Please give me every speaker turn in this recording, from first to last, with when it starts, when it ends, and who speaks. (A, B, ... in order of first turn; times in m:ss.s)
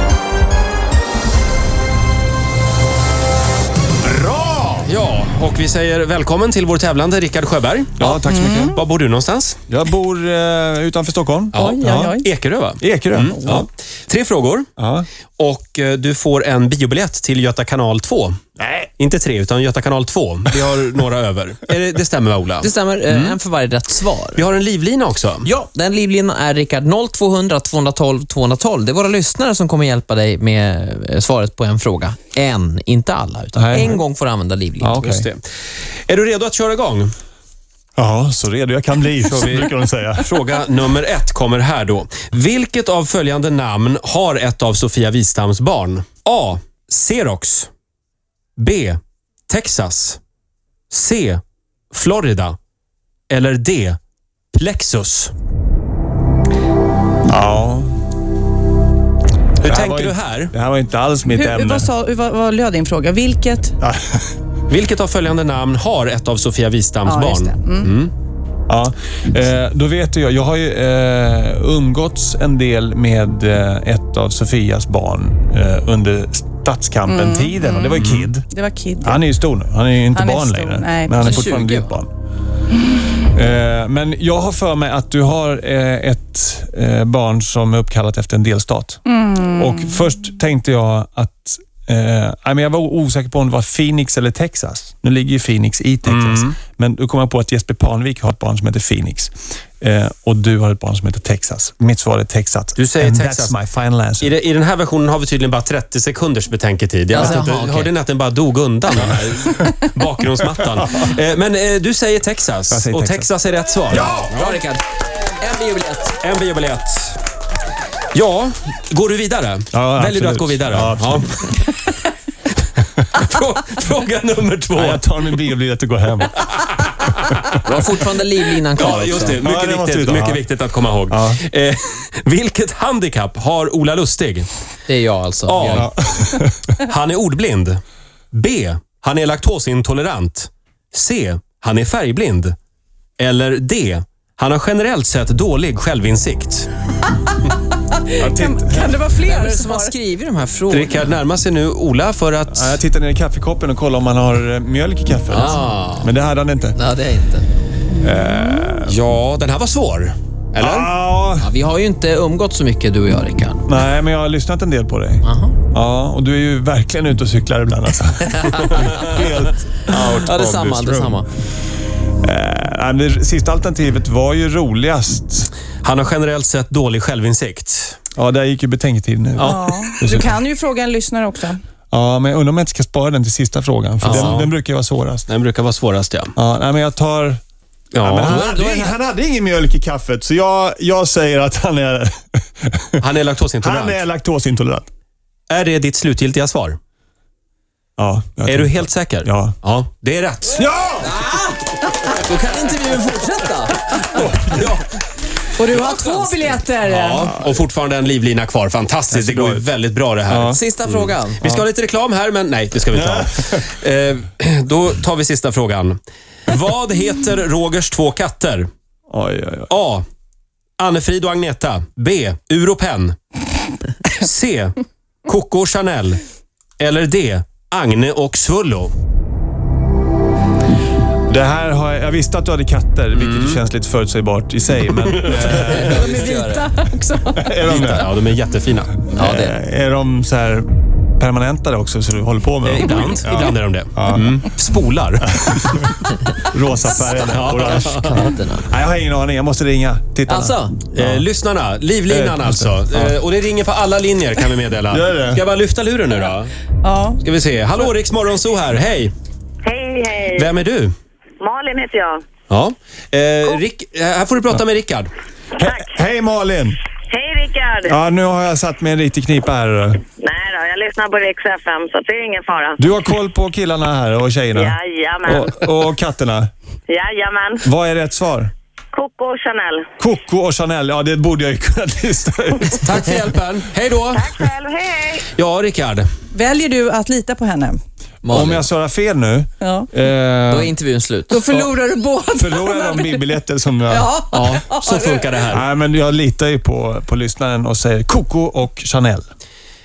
0:04.1-0:09.6 A
0:08.0-0:08.8 B
0:08.3-0:08.7 C
0:09.7-0:12.2 B
0:11.5-0:14.7 A
0:11.6-0:12.3 C
0:12.8-0:13.7 B
0:14.8-0:15.1 B
0:15.4-0:18.4 A
0:18.6-0:18.9 B
0:19.0-0:23.4 A
0:22.6-0:24.4 D
0:24.4-0:25.5 A
0:25.4-0:35.0 D
0:33.6-0:34.0 B
0:34.8-0:35.3 B
0:35.0-0:35.4 A
0:36.1-0:37.1 A
0:38.0-0:40.3 B
0:39.3-0:47.7 A
0:48.6-0:50.2 A
0:50.9-0:52.6 A
0:53.3-0:54.0 A
0:54.5-0:55.3 A
0:57.3-0:57.9 B
0:59.6-1:00.5 A
0:59.6-1:01.9 B
1:01.3-1:03.8 C
1:03.8-1:04.2 B
1:04.7-1:08.1 A
1:07.0-1:07.9 C
1:08.7-1:18.5 B
1:17.1-1:19.2 C
1:18.0-1:18.3 A
1:19.0-1:22.1 B
1:20.1-1:21.4 C
1:21.2-1:21.9 D
1:23.3-1:29.0 B
1:29.1-1:30.0 C
1:29.5-1:44.3 B
1:36.1-1:36.6 A
1:42.8-1:43.6 A
1:44.2-1:54.6 A
1:47.1-1:47.9 D
1:49.2-1:49.7 B
1:50.8-1:51.1 B
1:52.7-1:53.3 B
1:53.9-1:54.3 B
1:53.9-1:56.2 D
1:56.2-1:57.2 A
1:58.1-2:02.0 A
1:59.7-2:01.3 B
2:03.0-2:05.0 A
2:04.7-2:06.4 B
2:06.4-2:07.7 A
2:07.6-2:09.4 D
2:08.8-2:14.5 A
2:09.2-2:10.4 B
2:11.1-2:11.4 B
2:14.9-2:15.9 D
2:15.5-2:15.9 A
2:15.8-2:16.8 B
2:16.8-2:17.8 A
2:18.3-2:22.6 A
2:23.2-2:26.7 A
2:27.9-2:30.0 C
2:28.2-2:29.0 B
2:29.2-2:31.2 D
2:30.7-2:32.8 A
2:32.5-2:36.8 B
2:35.3-2:36.1 A
2:36.8-2:37.5 D
2:38.0-2:39.0 B
2:38.9-2:40.9 A
2:40.6-2:41.5 B
2:41.4-2:43.7 D
2:43.7-2:51.2 B
2:45.2-2:45.6 D
2:49.9-2:51.3 D
2:52.2-2:55.5 B
2:55.8-2:58.0 A
2:58.2-3:00.3 B
2:59.4-3:00.0 A
2:59.4-3:01.6 C
3:01.9-3:05.3 B
3:04.0-3:04.4 D
3:04.0-3:04.5 A
3:05.3-3:06.3 A
3:06.4-3:07.4 B
3:07.9-3:08.5 A
3:08.0-3:13.0 B
3:08.3-3:08.9 D
3:13.0-3:14.0 A
3:13.6-3:14.9 B
3:15.5-3:16.8 A
3:18.0-3:19.5 B
3:18.5-3:20.7 A
3:20.6-3:21.1 B
3:21.0-3:23.9 D
3:23.9-3:24.8 A
3:25.6-3:27.4 C
3:25.7-3:26.6 D
3:26.8-3:38.7 A
3:29.1-3:29.7 B
3:30.3-3:30.6 B
3:30.5-3:31.4 D
3:31.4-3:31.7 B
3:32.9-3:33.7 B
3:39.1-3:39.7 B
3:39.7-3:40.0 A
3:40.8-3:43.2 A
3:44.0-3:46.2 A
3:46.8-3:48.9 A
3:51.3-3:56.2 B
3:53.1-3:53.6 A
3:55.3-3:56.7 D
3:55.8-3:57.5 C
3:57.4-3:58.1 B
3:57.6-3:59.1 A
3:59.1-4:04.4 B
3:59.2-3:59.6 D
4:02.6-4:05.8 A
4:05.2-4:11.3 B
4:07.2-4:08.7 D
4:07.2-4:07.9 A
4:10.3-4:10.7 D
4:10.9-4:16.5 A
4:12.1-4:13.2 B
4:14.9-4:15.4 B
4:16.8-4:17.2 C
4:17.2-4:19.1 A
4:19.6-4:20.5 E
4:20.3-4:20.9 A
4:21.4-4:22.2 E
4:22.5-4:25.1 A
4:25.6-4:26.8 B
4:27.1-4:28.0 E
4:27.8-4:30.0 B
4:30.2-4:32.8 E
4:32.8-4:36.5 B
4:34.5-4:35.6 E
4:36.9-4:37.6 E
4:37.6-4:38.5 B
4:38.9-4:39.8 E
4:40.0-4:43.3 B
4:42.8-4:44.3 A
4:44.1-4:45.3 E
4:45.3-4:46.1 A
4:46.3-4:47.8 C
4:48.2-4:48.7 D
4:48.3-4:50.7 B
4:49.6-4:49.9 C
4:50.5-4:51.5 D
4:51.3-4:53.3 C
4:52.4-4:54.1 B
4:53.9-4:55.3 C
4:54.3-4:55.6 A
4:55.5-4:59.2 B